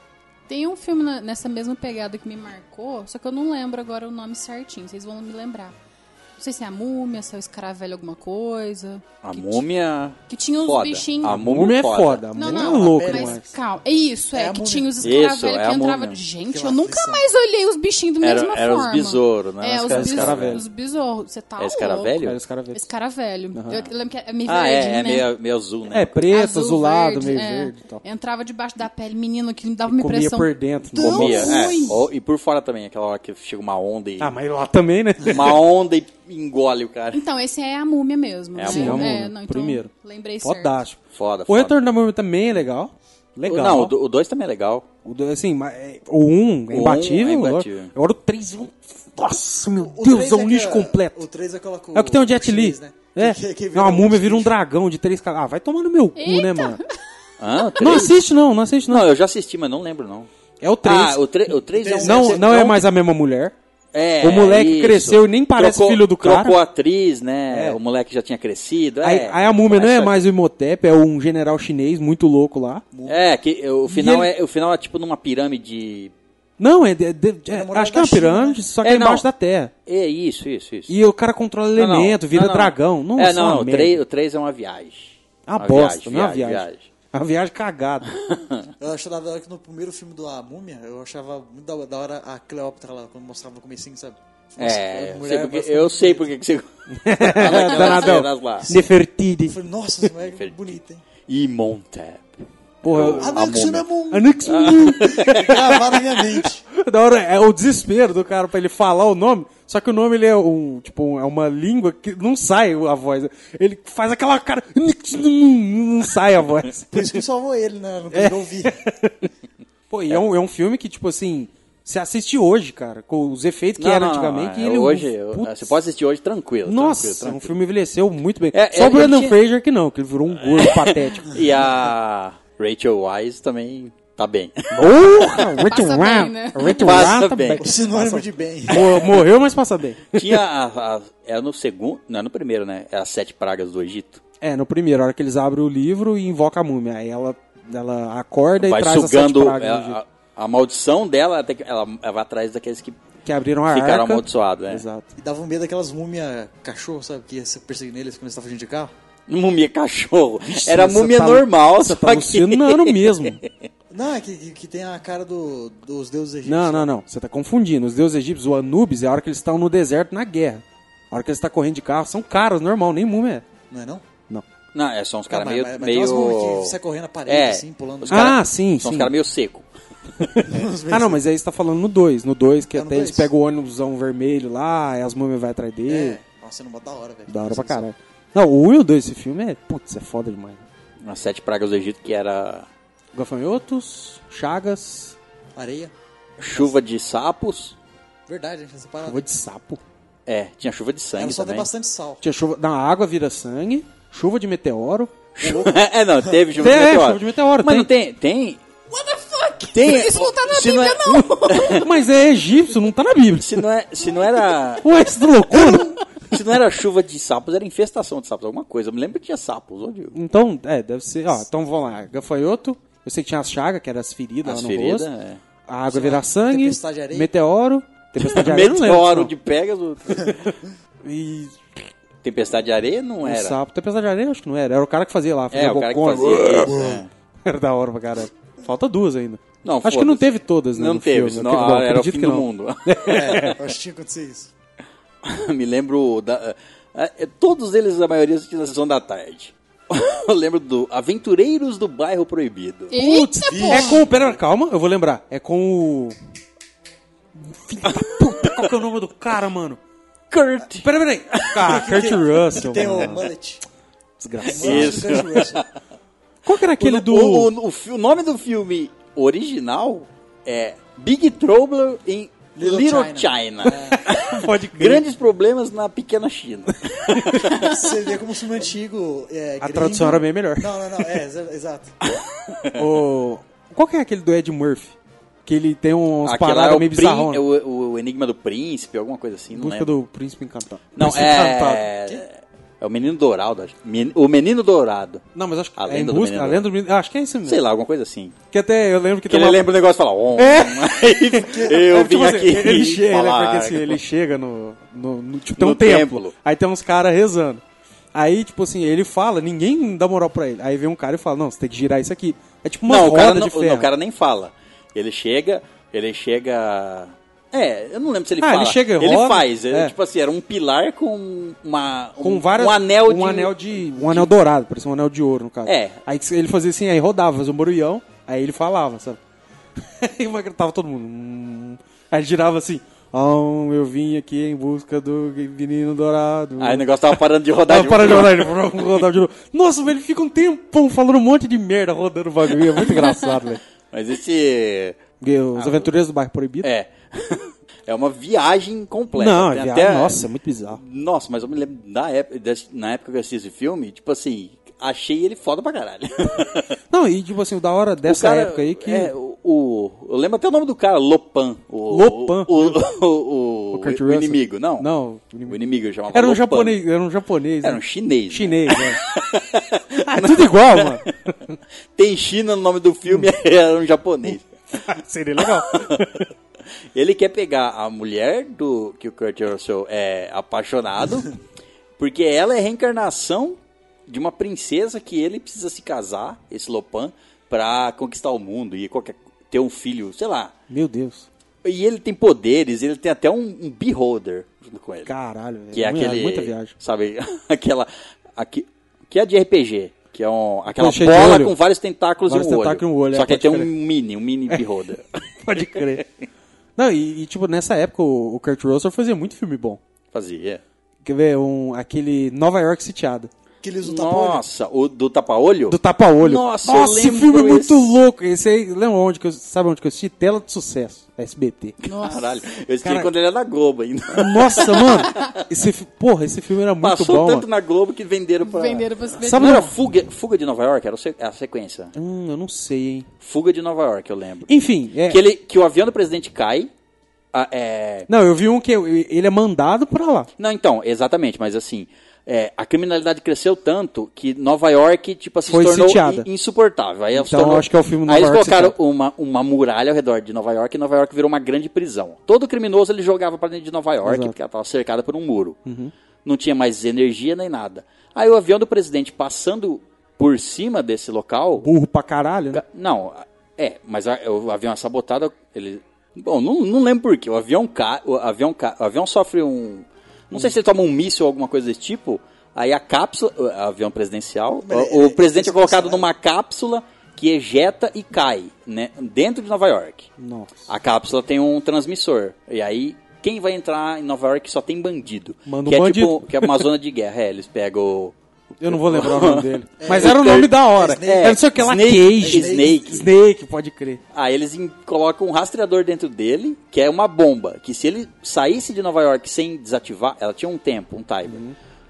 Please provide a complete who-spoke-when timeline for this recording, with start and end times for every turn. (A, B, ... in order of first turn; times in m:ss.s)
0:00.5-0:05.7 A
0:06.4-0:09.6 A
0:09.2-0:12.3 B
0:10.3-0:11.4 A
0:11.2-0:13.4 C
0:12.3-0:22.2 A
0:12.4-0:13.5 D
0:14.3-0:15.2 D
0:15.0-0:16.2 B
0:16.4-0:17.2 D
0:18.2-0:20.6 B
0:19.9-0:20.6 C
0:21.6-0:22.4 B
0:22.2-0:22.8 C
0:22.7-0:25.3 A
0:24.4-0:26.3 B
0:25.9-0:28.0 C
0:26.3-0:32.0 A
0:29.9-0:31.5 C
0:31.0-0:31.8 D
0:31.0-0:34.3 B
0:34.2-0:35.6 C
0:35.2-0:37.2 B
0:37.1-0:40.8 A
0:38.5-0:39.1 B
0:38.6-0:39.9 C
0:40.4-0:43.9 C
0:41.1-0:41.8 B
0:43.4-0:44.8 B
0:45.0-0:51.2 C
0:46.7-0:47.9 B
0:49.8-0:54.5 D
0:51.9-0:56.8 C
0:56.1-0:56.9 A
0:57.4-0:58.2 B
0:57.8-0:59.1 C
0:58.9-1:00.3 B
1:00.6-1:03.5 C
1:00.8-1:02.8 B
1:01.7-1:02.6 D
1:03.9-1:10.2 B
1:04.2-1:06.6 C
1:07.5-1:07.8 C
1:09.0-1:12.8 C
1:12.9-1:13.2 D
1:13.1-1:16.1 B
1:13.9-1:14.3 C
1:16.6-1:19.7 C
1:17.5-1:18.6 D
1:18.8-1:19.2 B
1:19.8-1:20.9 B
1:20.9-1:24.0 C
1:21.7-1:26.9 B
1:25.5-1:28.1 C
1:28.1-1:28.7 B
1:28.8-1:36.3 D
1:34.6-1:38.8 B
1:37.0-1:39.6 C
1:39.4-1:41.0 D
1:40.2-1:43.9 B
1:42.8-1:43.5 C
1:42.9-1:46.6 D
1:44.1-1:57.2 C
1:44.4-1:45.4 B
1:56.9-1:58.8 D
1:58.1-1:59.3 C
1:59.9-2:05.7 C
2:03.8-2:07.6 B
2:06.6-2:11.4 C
2:08.5-2:09.4 B
2:10.5-2:15.4 B
2:14.7-2:20.4 C
2:15.6-2:17.1 A
2:16.7-2:17.7 B
2:17.6-2:19.1 D
2:20.1-2:24.2 B
2:24.4-2:30.0 C
2:28.6-2:33.0 B
2:33.2-2:35.1 C
2:33.7-2:34.8 B
2:35.2-2:38.9 D
2:39.3-2:43.6 B
2:40.4-2:43.4 C
2:43.9-2:46.9 D
2:46.4-2:53.4 C
2:53.7-2:54.0 D
2:54.7-2:59.7 B
2:55.3-2:58.4 D
2:58.1-2:59.1 C
3:00.2-3:06.2 C
3:00.4-3:01.2 D
3:02.7-3:03.3 D
3:05.8-3:07.8 D
3:07.3-3:10.6 C
3:11.0-3:12.7 B
3:13.1-3:15.2 C
3:15.5-3:15.9 D
3:16.4-3:17.8 B
3:18.3-3:19.2 D
3:19.0-3:19.8 C
3:20.2-3:21.7 B
3:21.2-3:22.2 D
3:22.2-3:25.1 C
3:25.3-3:28.6 B
3:25.4-3:26.6 D
3:26.5-3:27.9 C
3:28.9-3:31.9 A
3:29.7-3:31.8 B
3:31.7-3:33.6 C
3:33.4-3:34.9 B
3:34.8-3:36.1 C
3:35.5-3:40.2 B
3:40.1-3:45.1 C
3:44.4-3:45.4 B
3:45.6-3:49.3 C
3:45.9-3:47.3 D
3:48.2-3:50.4 B
3:51.0-3:51.8 C
3:52.2-3:53.6 B
3:53.2-3:56.8 C
3:55.5-3:57.1 B
3:56.5-3:57.0 D
3:57.4-4:03.6 C
3:59.6-4:03.6 B
4:03.0-4:04.5 D
4:05.2-4:13.0 B
4:12.9-4:14.0 A
4:12.9-4:16.2 C
4:13.5-4:14.3 D
4:17.4-4:19.8 C
4:17.9-4:18.7 B
4:20.3-4:22.1 B
4:20.8-4:23.3 C
4:21.6-4:23.6 D
4:24.2-4:25.3 C
4:24.4-4:25.6 B
4:24.4-4:25.6 D
4:26.4-4:27.5 C
4:26.8-4:37.7 B
4:32.5-4:34.1 D
4:34.0-4:35.0 C
4:37.1-4:37.5 C
4:37.5-4:41.9 D
4:39.6-4:41.0 C
4:42.0-4:42.8 B
4:42.8-4:44.9 C
4:45.4-4:47.4 C
4:46.2-4:49.9 B
4:49.5-4:51.9 C
4:50.9-4:55.2 B
4:55.3-4:57.6 C
4:55.8-4:56.7 B
4:57.4-4:58.3 B
4:58.5-4:59.7 C
4:59.3-5:04.0 B
5:00.4-5:07.6 C
5:01.3-5:01.9 D
5:05.6-5:06.3 B
5:08.1-5:13.9 C
5:12.8-5:24.3 B
5:18.4-5:19.9 C
5:22.2-5:29.2 C
5:25.6-5:26.0 B
5:30.0-5:43.6 C
5:36.6-5:38.8 B
5:43.9-5:45.0 B
5:45.2-5:46.7 C
5:45.5-5:45.9 B
5:46.6-5:56.8 B
5:49.1-5:50.8 C
5:56.9-5:59.1 C
5:58.0-6:04.9 B
6:01.9-6:02.8 C
6:03.7-6:05.6 C
6:05.5-6:06.8 B
6:06.1-6:09.0 C
6:07.6-6:11.1 B
6:10.1-6:11.6 C
6:12.0-6:14.8 B
6:14.8-6:16.3 C
6:15.4-6:16.0 B
6:16.9-6:21.3 B
6:22.0-6:30.5 B
6:30.7-6:31.2 C
6:31.6-6:35.1 B
6:35.0-6:36.7 C
6:35.7-6:46.0 B
6:40.7-6:41.6 C
6:42.3-6:43.7 C
6:45.4-6:46.0 C
6:46.8-6:49.8 C
6:50.1-6:50.6 B
6:51.0-6:53.3 C
6:53.6-6:54.4 D
6:53.8-6:58.0 B
6:55.7-7:01.8 C
7:01.8-7:05.4 B
7:01.8-7:02.4 A
7:02.8-7:03.1 C
7:04.1-7:07.4 C
7:04.6-7:05.3 A
7:06.8-7:11.9 B
7:08.4-7:09.7 A
7:09.2-7:09.7 C
7:12.0-7:13.1 C
7:13.2-7:14.5 B
7:14.5-7:15.2 C
7:15.0-7:16.7 B
7:17.3-7:18.1 B
7:18.1-7:20.3 C
7:20.4-7:35.6 B
7:25.4-7:26.3 C
7:27.1-7:28.7 C
7:34.0-7:34.3 C
7:35.6-7:35.9 C
7:36.2-7:41.7 B
7:41.6-7:42.6 C
7:42.5-8:00.1 B
7:54.6-7:56.1 D
8:00.2-8:00.5 C
8:00.7-8:08.1 B
8:05.5-8:06.6 C
8:08.6-8:14.0 C
8:08.7-8:13.1 B
8:09.8-8:12.8 D
8:14.1-8:21.4 B
8:21.3-8:21.5 C